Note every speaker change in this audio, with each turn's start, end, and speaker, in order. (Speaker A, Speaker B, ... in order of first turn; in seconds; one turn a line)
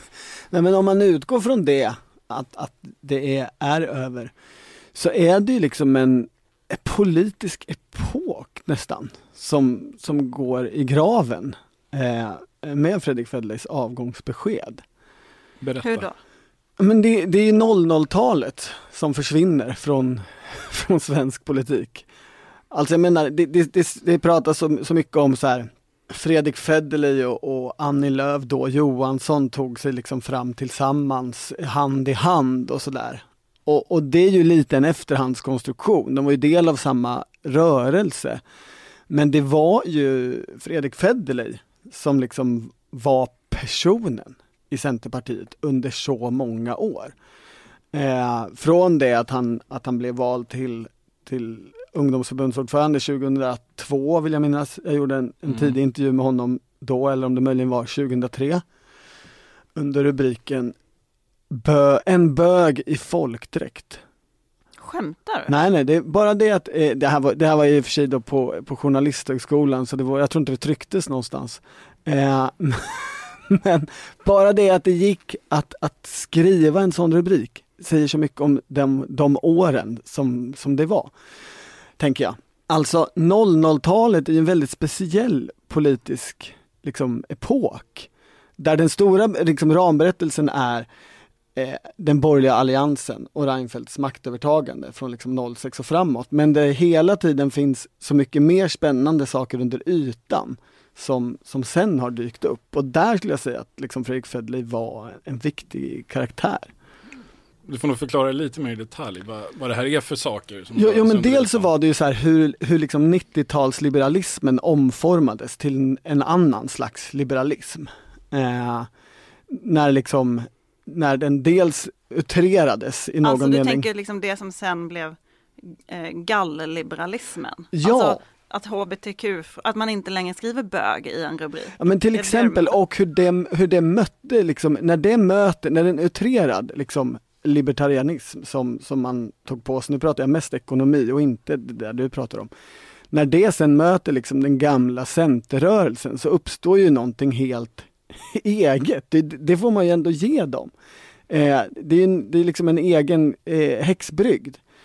Speaker A: 0.5-4.3
Speaker A: 4.9-14.8
Speaker B: 15.6-16.1
Speaker C: 15.8-16.1
Speaker A: 16.8-22.1
Speaker A: 22.7-38.4
Speaker A: 39.1-47.1
Speaker A: 47.9-58.6
Speaker A: 59.7-60.7
Speaker A: 61.5-64.0
Speaker C: 64.8-65.6
Speaker A: 65.5-81.1
Speaker A: 82.0-90.9
Speaker A: 91.5-106.7
Speaker B: 107.7-111.7
Speaker A: 110.7-118.9
Speaker A: 119.5-123.9
Speaker C: 123.2-132.8
Speaker A: 127.7-128.2
Speaker A: 131.8-142.5
Speaker A: 143.1-150.7
Speaker A: 151.3-154.6